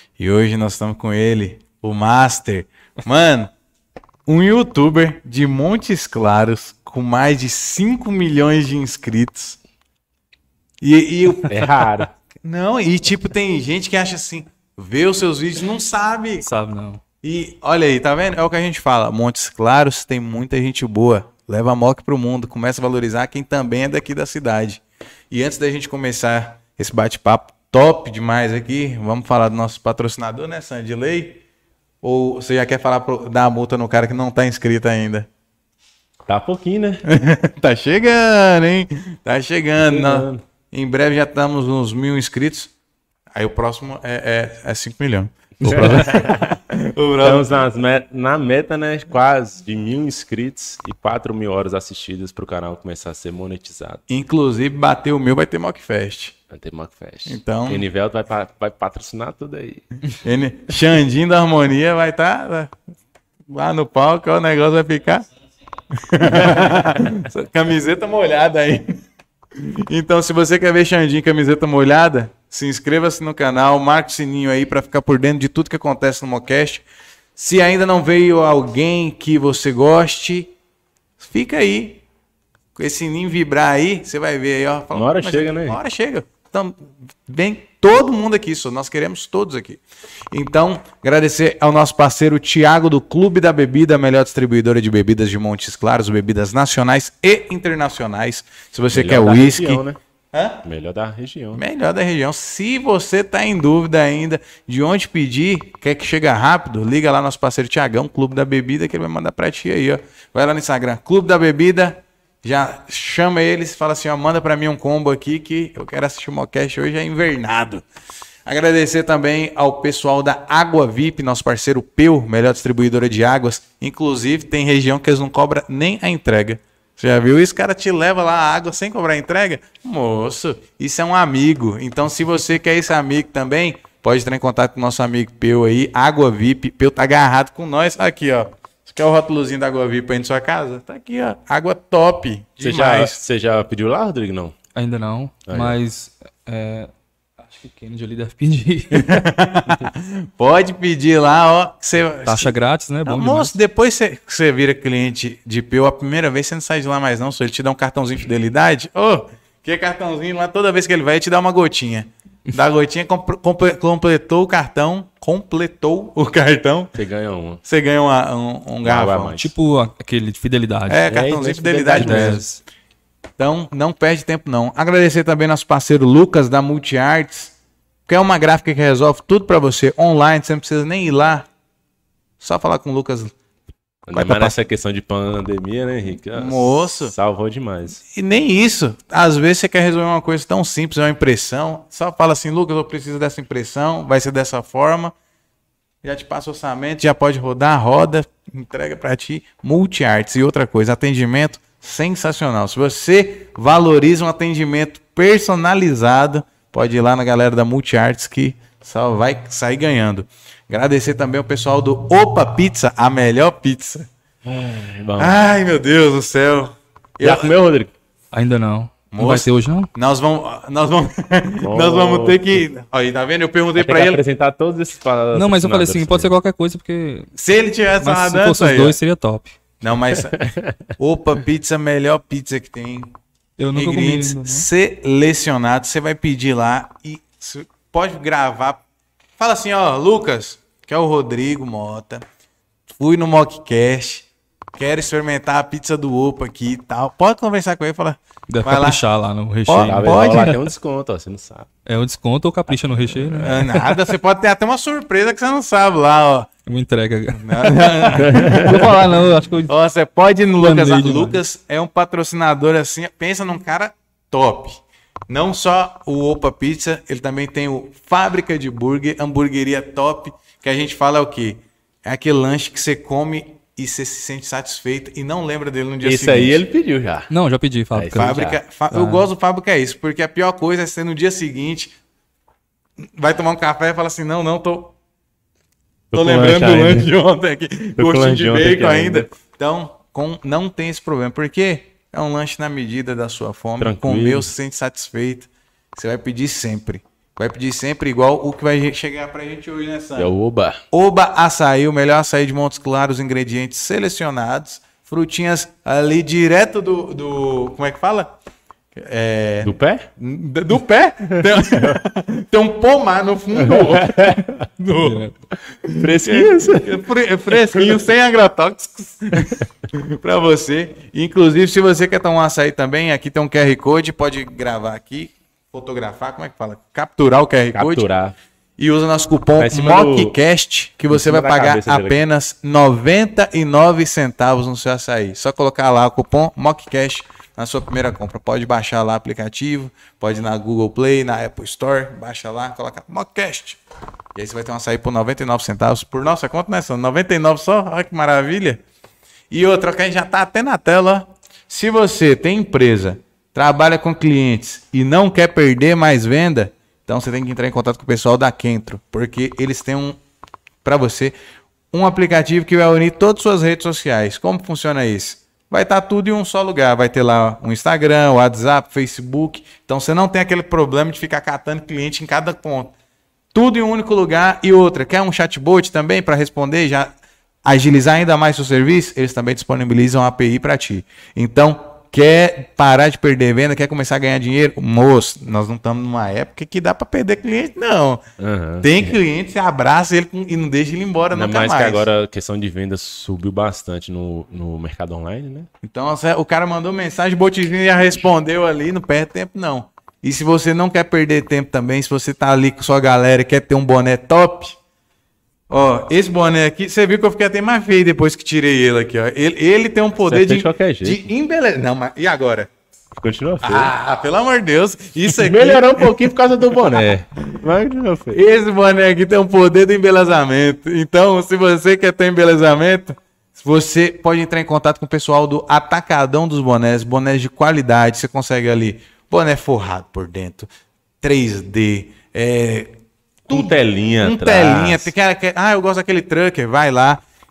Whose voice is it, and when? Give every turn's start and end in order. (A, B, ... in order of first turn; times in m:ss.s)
0:00.2-0:03.5 A
0:04.3-0:09.6 A
0:10.8-0:11.8 A
0:11.5-0:12.1 B
0:12.4-0:16.5 A
0:16.4-0:17.0 C
0:17.2-0:31.4 A
0:32.0-0:35.3 A
0:36.3-0:37.0 B
0:37.1-0:42.7 A
0:39.8-0:40.4 B
0:43.3-0:47.5 A
0:45.6-0:46.2 C
0:45.7-0:46.6 B
0:47.2-0:54.0 B
0:54.1-0:56.4 A
0:56.5-0:59.9 B
0:57.3-0:57.8 A
1:00.2-1:02.8 A
1:03.5-1:05.3 A
1:06.0-1:09.0 A
1:09.6-1:16.8 A
1:17.4-1:20.5 A
1:21.2-1:22.0 A
1:22.8-1:40.6 A
1:24.9-1:25.8 B
1:38.9-1:40.0 B
1:40.6-1:41.6 B
1:41.5-1:57.8 A
1:58.5-2:23.2 A
2:22.6-2:24.6 B
2:24.8-2:29.3 C
2:25.5-2:25.8 B
2:28.9-2:32.6 A
2:32.3-2:33.6 C
2:33.1-2:47.0 A
2:46.9-2:47.6 B
2:47.6-2:49.4 A
2:48.8-2:49.5 B
2:49.4-2:51.0 C
2:50.9-2:52.4 A
2:51.1-2:52.4 B
2:52.0-2:52.6 C
2:53.4-2:57.5 A
2:58.1-3:01.5 A
3:02.4-3:03.3 A
3:04.1-3:08.0 B
3:04.1-3:04.6 A
3:06.4-3:07.1 A
3:08.1-3:15.1 A
3:16.0-3:34.1 A
3:34.4-3:35.4 B
3:35.2-3:37.5 A
3:37.2-3:37.9 B
3:38.3-3:39.9 C
3:39.1-3:44.2 A
3:41.6-3:42.6 B
3:43.8-3:46.3 B
3:45.3-3:47.3 C
3:47.4-3:49.0 A
3:48.0-3:49.6 C
3:49.8-3:53.1 A
3:50.4-3:50.8 B
3:53.6-3:54.7 C
3:53.8-3:58.8 A
3:59.4-4:02.2 A
4:03.0-4:04.3 A
4:04.8-4:09.0 A
4:08.5-4:10.6 C
4:09.7-4:10.6 A
4:09.8-4:11.7 B
4:11.9-4:14.0 C
4:13.1-4:13.5 B
4:13.4-4:16.5 A
4:16.7-4:19.7 C
4:17.4-4:18.9 A
4:18.2-4:18.9 B
4:19.7-4:36.6 A
4:20.6-4:21.4 C
4:36.0-4:37.3 B
4:37.3-4:38.4 C
4:37.9-4:38.6 B
4:38.2-4:41.9 A
4:38.9-4:39.3 C
4:43.0-4:44.9 A
4:46.1-4:47.1 B
4:46.1-5:00.3 A
4:48.0-4:49.3 B
4:53.8-4:54.5 B
5:00.2-5:00.8 B
5:00.9-5:08.4 A
5:09.0-5:15.3 A
5:09.6-5:10.1 B
5:11.4-5:12.0 B
5:13.6-5:14.6 B
5:15.0-5:15.3 C
5:15.8-5:28.1 A
5:16.0-5:17.0 B
5:27.8-5:28.4 B
5:28.8-5:43.8 A
5:29.6-5:30.4 B
5:31.1-5:32.2 B
5:44.4-5:48.8 A
5:49.5-6:00.2 A
6:00.8-6:01.4 A
6:01.9-6:12.9 A
6:13.5-6:28.2 A
6:28.4-6:29.1 B
6:28.8-6:32.1 A
6:31.3-6:35.7 B
6:35.8-6:44.8 A
6:45.7-6:52.7 A
6:50.3-6:51.3 B
6:53.1-6:53.9 B
6:53.6-6:56.2 A
6:55.3-6:58.4 B
6:58.3-7:10.7 A
7:11.2-7:17.2 A
7:13.5-7:15.1 B